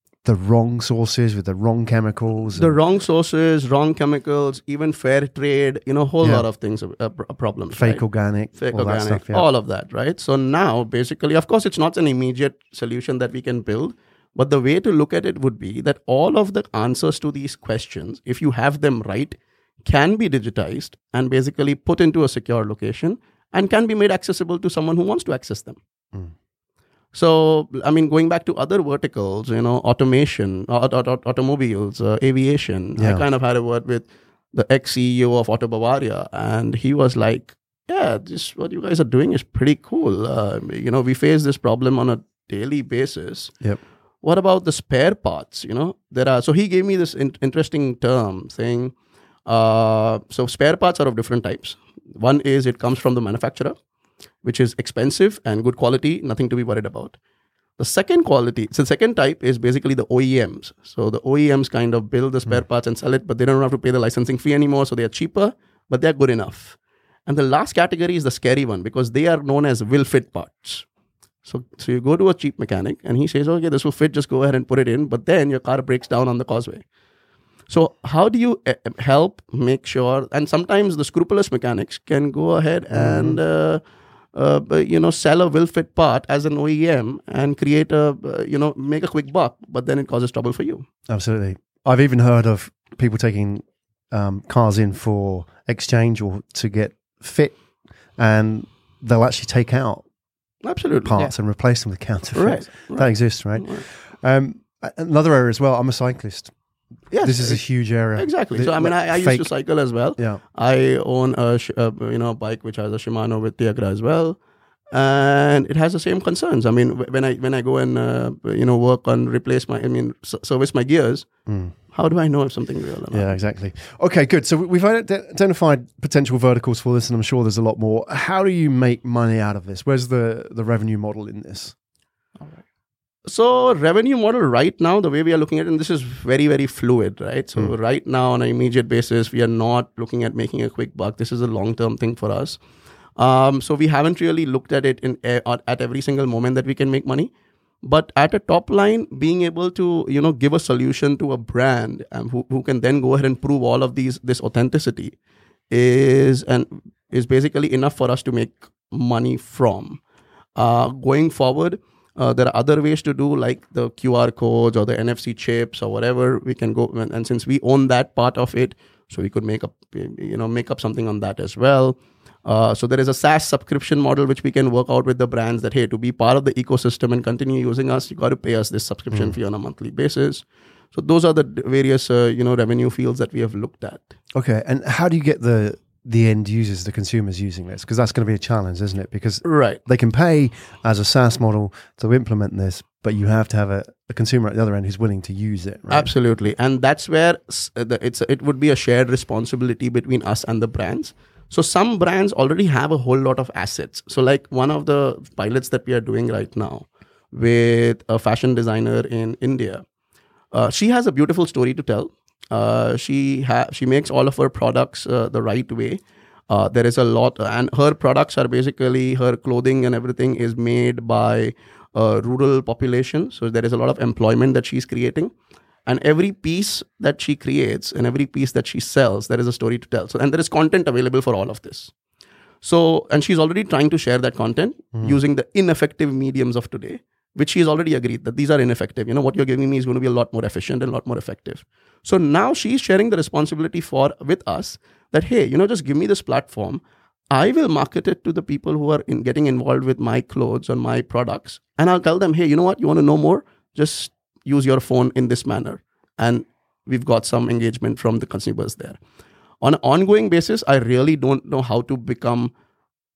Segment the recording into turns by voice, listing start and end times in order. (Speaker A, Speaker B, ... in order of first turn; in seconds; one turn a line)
Speaker A: 0.2-2.8
Speaker B: 2.5-8.0
Speaker A: 7.7-9.4
Speaker B: 8.5-25.8
Speaker B: 27.1-43.5
Speaker A: 33.0-33.2
Speaker B: 44.2-48.9
Speaker B: 49.5-53.8
Speaker B: 54.4-57.2
Speaker B: 57.8-70.9
Speaker B: 71.5-76.8
Speaker B: 77.7-83.8
Speaker A: 82.9-83.4
Speaker B: 84.3-90.9
Speaker A: 91.1-97.5
Speaker A: 98.2-100.0
Speaker B: 100.6-101.1
Speaker A: 101.0-106.5
Speaker B: 102.3-103.8
Speaker B: 107.1-114.4
Speaker A: 107.2-109.5
Speaker B: 114.9-123.4
Speaker A: 121.5-121.7
Speaker A: 123.1-131.7
Speaker B: 133.3-142.6
Speaker B: 143.2-147.3
Speaker B: 147.8-155.2
Speaker B: 155.7-160.0
Speaker B: 160.6-184.1
Speaker A: 184.3-196.1
Speaker B: 189.4-189.8
Speaker B: 195.9-209.8
Speaker B: 210.5-225.3
Speaker B: 225.9-231.9
Speaker B: 232.6-259.0
Speaker B: 259.6-262.5